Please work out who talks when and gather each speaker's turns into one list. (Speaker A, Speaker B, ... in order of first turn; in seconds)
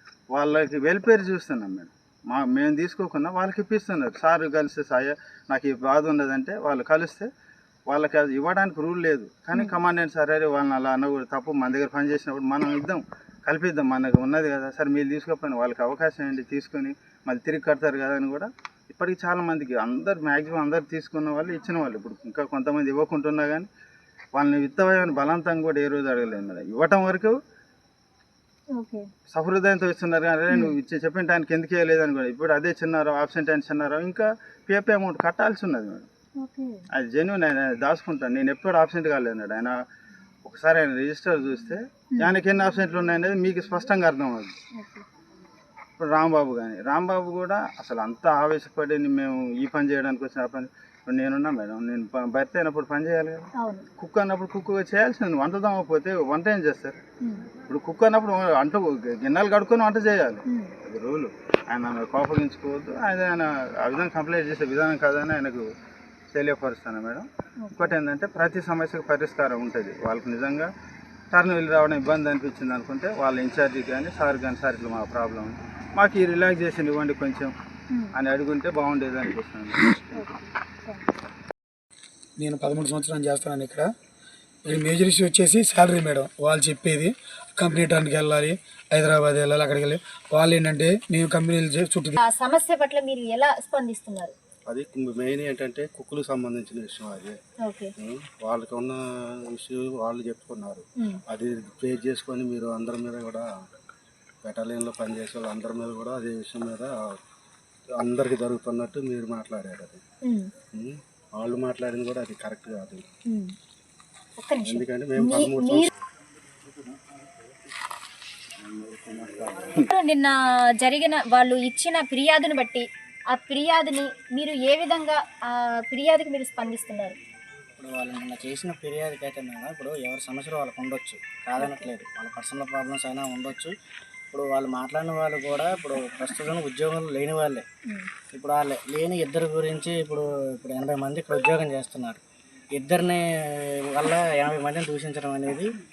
Speaker A: 0.3-7.3, 7.9-23.7, 24.3-27.4, 29.3-36.1, 36.9-39.8, 40.5-44.5, 46.0-57.0, 57.7-65.7, 66.3-70.7, 71.3-77.5, 78.2-80.2, 118.7-119.3
Speaker B: 28.8-29.1, 36.4-36.8, 44.8-45.0, 53.6-53.9, 57.2-57.5, 60.5-60.7, 67.6-67.9, 80.1-81.2, 92.2-94.3, 97.6-97.9, 110.3-110.5, 114.4-115.9, 119.7-127.2, 131.6-131.9
Speaker C: 82.4-83.9, 84.7-92.2
Speaker D: 94.7-97.4, 98.0-103.5, 104.4-107.2, 107.9-110.0, 110.7-113.1, 114.7-115.9, 119.2-119.6
Speaker E: 127.8-133.7, 134.3-137.7, 138.3-142.2, 142.7-145.7